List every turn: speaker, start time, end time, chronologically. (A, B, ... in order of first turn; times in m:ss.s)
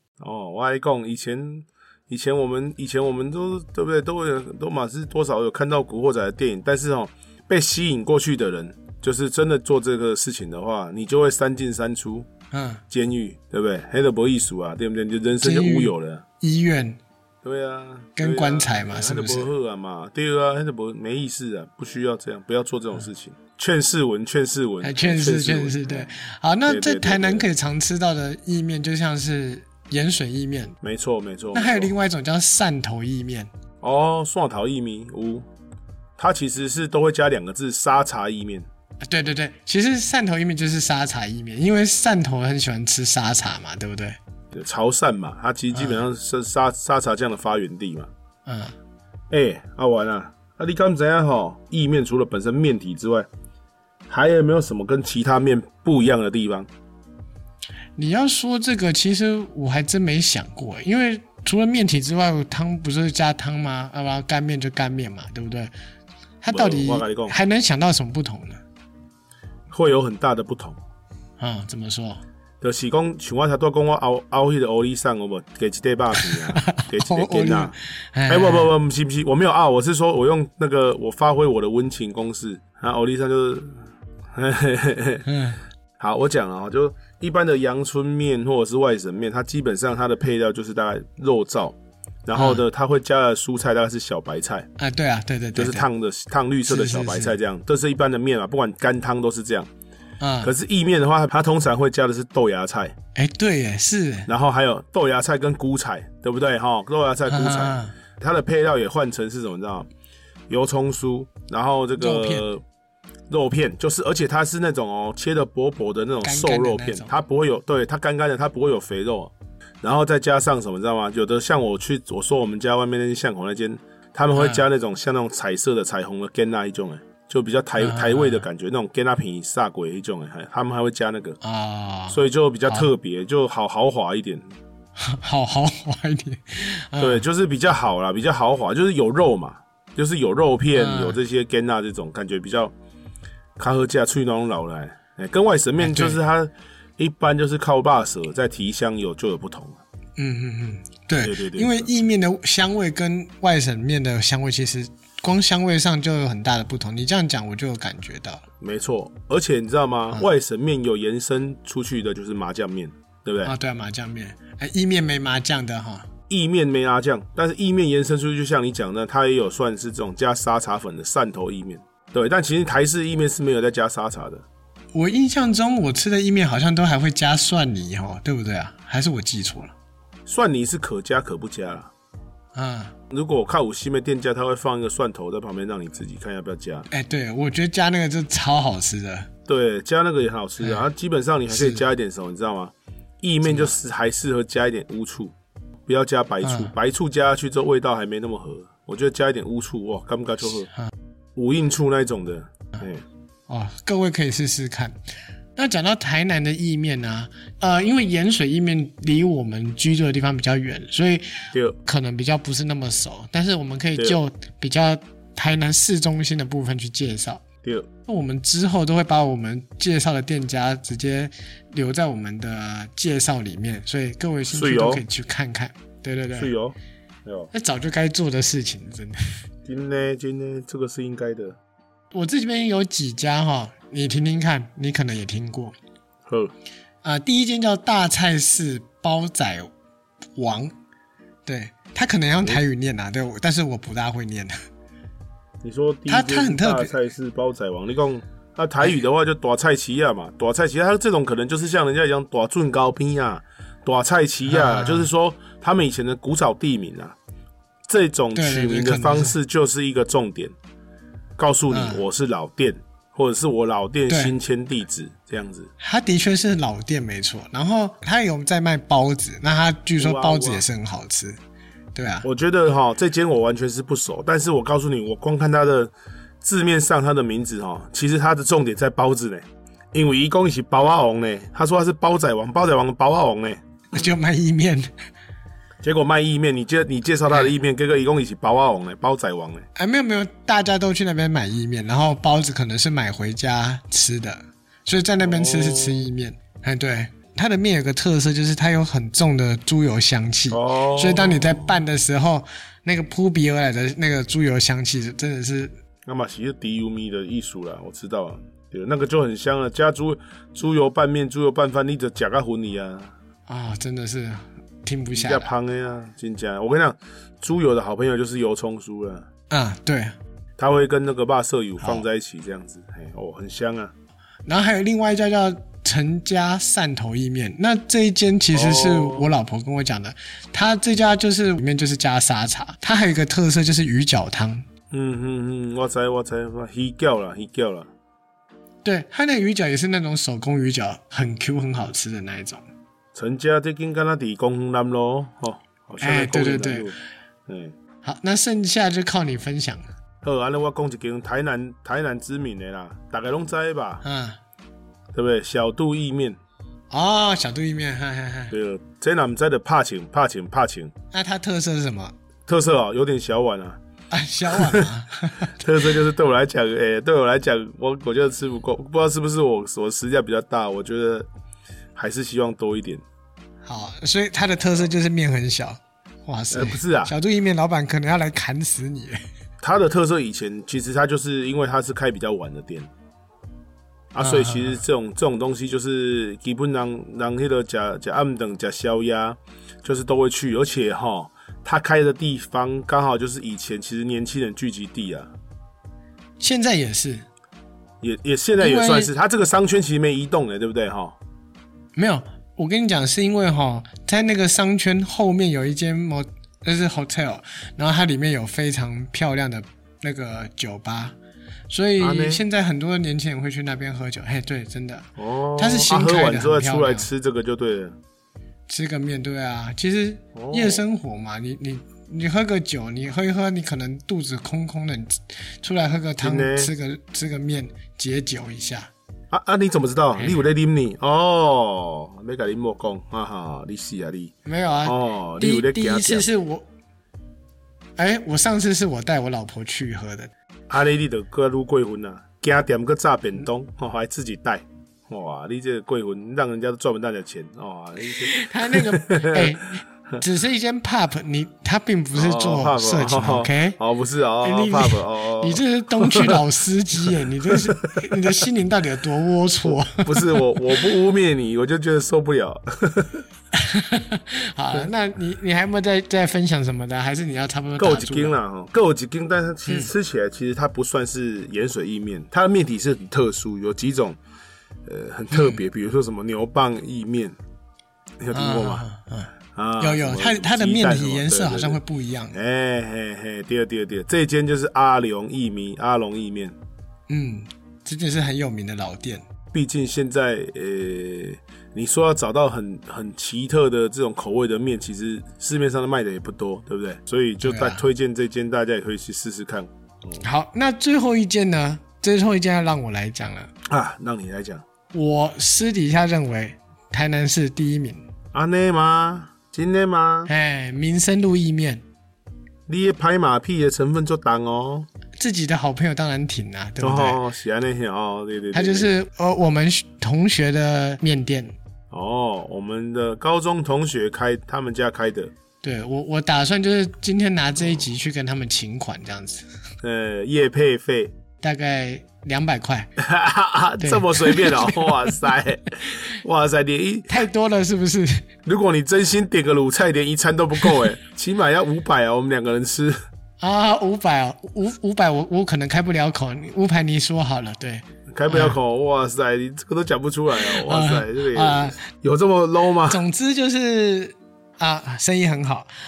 0:00.2-0:12.3 A
0:12.5-0:12.8 B
0:12.9-0:16.2 A
0:15.4-0:17.0 B
0:17.4-0:26.1 A
0:18.2-0:19.5 B
0:24.8-0:30.8 B
0:26.7-0:27.5 A
0:30.8-0:31.9 A
0:31.5-0:33.5 B
0:33.8-0:35.5 A
0:36.2-0:38.7 A
0:39.1-0:44.2 B
0:44.5-0:48.1 A
0:45.7-0:46.0 B
0:48.5-0:48.8 B
0:49.3-0:53.3 A
0:54.1-0:56.7 A
0:58.0-1:05.7 B
1:06.4-1:08.6 B
1:06.5-1:07.4 A
1:09.7-1:10.8 A
1:11.4-1:12.2 B
1:12.6-1:17.8 A
1:16.2-1:18.7 B
1:18.3-1:25.3 A
1:25.3-1:25.6 B
1:26.0-1:34.7 A
1:32.4-1:32.6 B
1:34.8-1:35.9 B
1:35.6-1:39.7 A
1:36.7-1:37.4 B
1:40.2-1:40.5 B
1:40.4-1:43.0 A
1:43.2-1:44.3 B
1:44.3-1:49.9 A
1:47.3-1:47.9 B
1:50.5-1:52.6 A
1:52.0-1:52.5 B
1:53.3-2:11.4 A
1:56.2-1:57.1 B
2:04.3-2:04.6 B
2:07.8-2:08.5 B
2:11.4-2:12.9 B
2:12.1-2:14.5 A
2:15.0-2:17.2 B
2:17.0-2:22.7 A
2:20.8-2:21.2 B
2:23.6-2:29.8 A
2:25.8-2:26.2 B
2:30.2-2:38.4 B
2:31.2-2:31.9 A
2:38.6-2:43.5 A
2:43.4-2:46.1 B
2:46.3-2:54.4 A
2:54.9-2:59.7 B
3:00.3-3:01.9 A
3:02.6-3:03.0 B
3:03.1-3:06.9 A
3:06.9-3:09.3 B
3:09.5-3:15.3 A
3:11.5-3:11.8 B
3:13.5-3:13.7 B
3:15.9-3:20.7 A
3:16.4-3:16.7 B
3:21.4-3:23.0 A
3:23.5-3:25.0 B
3:25.6-3:37.4 B
3:37.6-3:37.9 A
3:38.1-3:46.5 B
3:44.5-3:45.0 A
3:46.4-3:47.5 A
3:47.5-3:49.3 B
3:49.7-3:51.6 A
3:52.1-3:55.8 B
3:56.3-3:56.5 A
3:57.0-3:59.7 B
4:00.4-4:00.7 B
4:01.5-4:04.6 B
4:05.6-4:17.2 A
4:06.1-4:06.9 B
4:14.5-4:15.1 B
4:17.9-4:20.5 A
4:18.4-4:19.4 B
4:21.4-4:25.7 A
4:21.7-4:22.0 B
4:24.1-4:24.3 B
4:25.8-4:31.4 B
4:30.0-4:30.6 A
4:32.0-4:32.3 B
4:32.2-4:43.6 A
4:43.9-4:44.9 B
4:45.8-4:49.7 A
4:49.8-5:05.8 B
4:55.2-4:56.1 A
5:00.5-5:01.8 A
5:06.1-5:13.1 A
5:13.5-5:15.5 B
5:15.1-5:19.3 A
5:19.5-5:20.2 B
5:20.6-5:23.9 A
5:24.5-5:34.6 B
5:28.5-5:29.3 A
5:34.9-5:37.9 A
5:38.8-5:42.6 B
5:43.2-5:47.0 A
5:46.0-5:46.9 B
5:47.5-5:47.8 A
5:48.0-5:49.9 B
5:50.2-5:54.0 A
5:54.0-5:54.4 B
5:55.1-5:56.4 A
5:56.9-5:58.5 B
5:58.5-6:00.9 A
6:01.1-6:02.2 B
6:02.5-6:03.8 A
6:04.1-6:05.5 B
6:04.5-6:04.9 A
6:05.4-6:11.3 A
6:12.0-6:13.0 A
6:13.6-6:19.2 B
6:16.5-6:17.1 A
6:19.6-6:22.9 A
6:24.1-6:35.3 A
6:24.2-6:24.8 B
6:36.4-6:37.3 B
6:38.0-6:41.2 A
6:38.6-6:39.1 B
6:42.0-6:51.2 B
6:51.7-6:57.1 B
6:52.0-6:52.4 A
6:55.2-6:58.0 A
6:58.7-7:08.9 B
7:00.4-7:00.8 A
7:06.2-7:06.7 A
7:09.3-7:14.3 A
7:10.2-7:10.4 B
7:14.4-7:16.7 B
7:14.8-7:16.3 A
7:18.0-7:20.3 B
7:20.7-7:29.6 A
7:28.0-7:33.8 B
7:32.1-7:36.4 A
7:34.4-7:40.5 B
7:37.5-7:38.3 A
7:40.0-7:43.2 A
7:43.5-7:48.4 B
7:47.8-7:54.2 A
7:54.9-7:57.4 A
7:55.3-7:55.6 B
7:58.2-7:58.8 A
7:58.3-8:02.4 B
7:59.5-8:01.8 A
8:02.3-8:06.6 A
8:07.1-8:09.2 B
8:09.5-8:20.2 A
8:17.4-8:17.8 B
8:20.2-8:23.5 B
8:23.7-8:24.6 A
8:24.9-8:28.0 B
8:28.3-8:30.3 A
8:30.3-8:31.8 B
8:32.7-8:34.9 A
8:35.2-8:37.2 B
8:36.8-8:38.9 A
8:38.5-8:41.5 B
8:41.9-8:45.3 A
8:45.6-8:49.5 B
8:49.8-8:51.1 A
8:51.4-8:52.9 B
8:53.0-8:57.1 A
8:53.8-8:55.2 B
8:57.1-8:58.2 B
8:58.4-9:03.0 A
9:03.4-9:08.6 B
9:08.1-9:13.0 A
9:10.4-9:11.9 B
9:12.9-9:15.7 B